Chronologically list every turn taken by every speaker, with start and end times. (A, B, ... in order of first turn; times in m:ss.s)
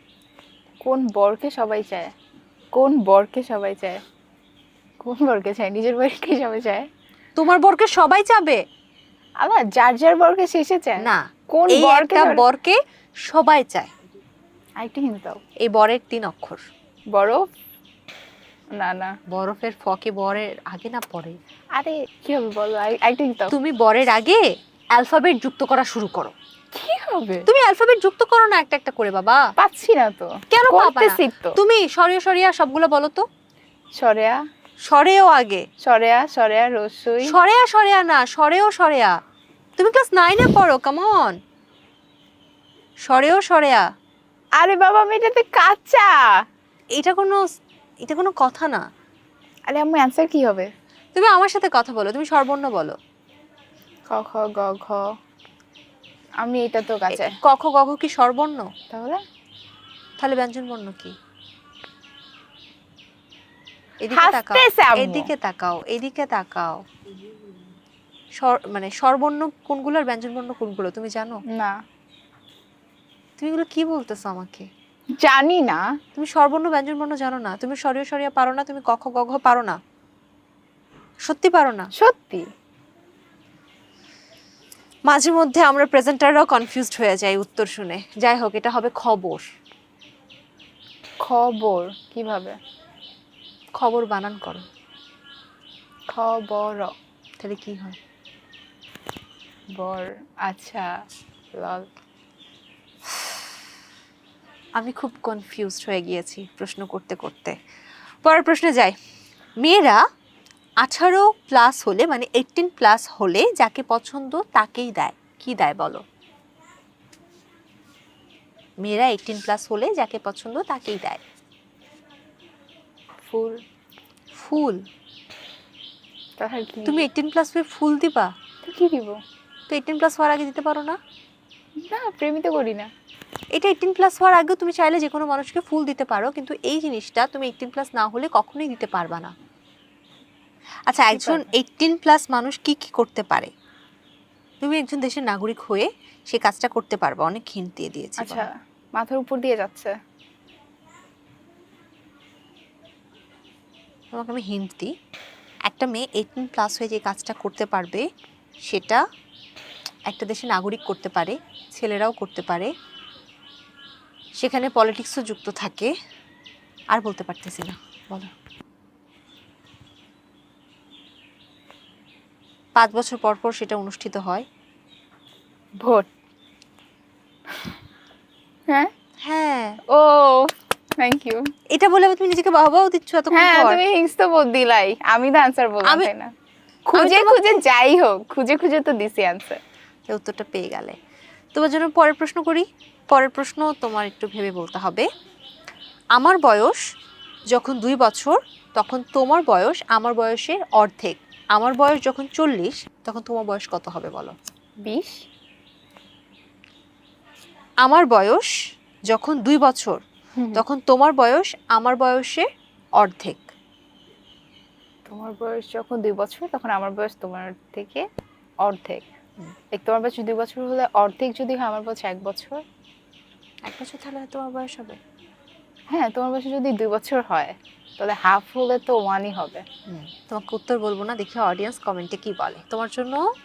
0:00.8-0:02.1 A
0:02.8-0:04.0 A
0:05.0-0:06.8 A
0:07.4-0:08.6 B
0:09.4-0:12.4 A
0:11.0-0:13.9 B
0:14.8-0:15.4 A
0:15.6-0:16.6 B
0:17.1-0:17.4 A
0:18.8-0:19.1 A
0:19.3-0:21.4 B
0:21.8-0:23.5 A
0:23.5-0:24.4 B
0:24.9-0:26.3 B
0:26.7-0:27.5 A
0:27.4-0:29.4 B
0:29.6-0:31.5 A
0:30.5-0:33.2 B
0:34.0-0:34.4 A
0:34.8-0:35.6 B
0:35.8-0:37.3 A
0:37.2-0:39.1 B
0:39.8-0:41.3 B
0:43.0-0:43.8 B
0:44.6-0:46.2 A
0:47.0-0:47.4 B
0:48.0-0:48.8 B
0:49.7-0:50.7 A
0:51.1-0:52.9 B
0:54.1-0:55.0 A
0:56.4-0:57.3 A
0:57.1-0:58.7 B
0:58.9-0:59.2 A
1:00.2-1:01.1 B
1:04.0-1:06.8 B
1:04.1-1:05.3 A
1:08.4-1:11.4 B
1:13.4-1:14.7 B
1:15.2-1:15.8 A
1:16.1-1:19.8 B
1:21.2-1:21.9 B
1:22.0-1:22.4 A
1:25.1-1:29.4 B
1:31.2-1:32.6 A
1:33.8-1:34.6 B
1:36.1-1:36.9 A
1:37.4-1:38.0 B
1:39.8-1:40.9 A
1:41.6-1:41.8 A
1:44.8-1:47.6 B
1:48.2-1:48.9 B
1:49.6-1:50.0 B
1:50.8-1:56.0 B
1:58.8-2:01.2 B
2:03.2-2:03.6 A
2:04.4-2:04.8 B
2:06.4-2:07.1 A
2:06.8-2:08.3 B
2:08.6-2:09.2 A
2:09.7-2:11.0 B
2:11.8-2:12.9 A
2:13.5-2:19.3 B
2:20.9-2:23.5 B
2:21.1-2:21.5 A
2:24.6-2:28.5 B
2:28.2-2:29.9 A
2:34.1-2:34.9 B
2:35.6-2:38.0 B
2:38.6-2:39.0 B
2:40.1-2:42.7 B
2:44.4-2:45.9 B
2:46.9-2:48.3 B
2:52.8-2:54.4 B
2:55.8-2:56.1 A
2:59.2-2:59.8 B
2:59.9-3:01.4 A
3:01.7-3:03.8 B
3:03.3-3:06.3 A
3:06.9-3:09.6 A
3:06.9-3:07.6 B
3:10.1-3:10.9 B
3:11.5-3:15.1 B
3:16.2-3:16.8 B
3:17.5-3:24.3 B
3:24.8-3:25.2 A
3:27.8-3:28.5 B
3:29.1-3:30.0 B
3:30.4-3:30.6 A
3:30.5-3:32.4 B
3:33.0-3:33.4 B
3:35.1-3:38.0 A
3:38.6-3:39.0 A
3:39.7-3:42.6 A
3:43.7-3:45.0 B
3:45.9-3:49.6 A
3:49.9-3:53.2 B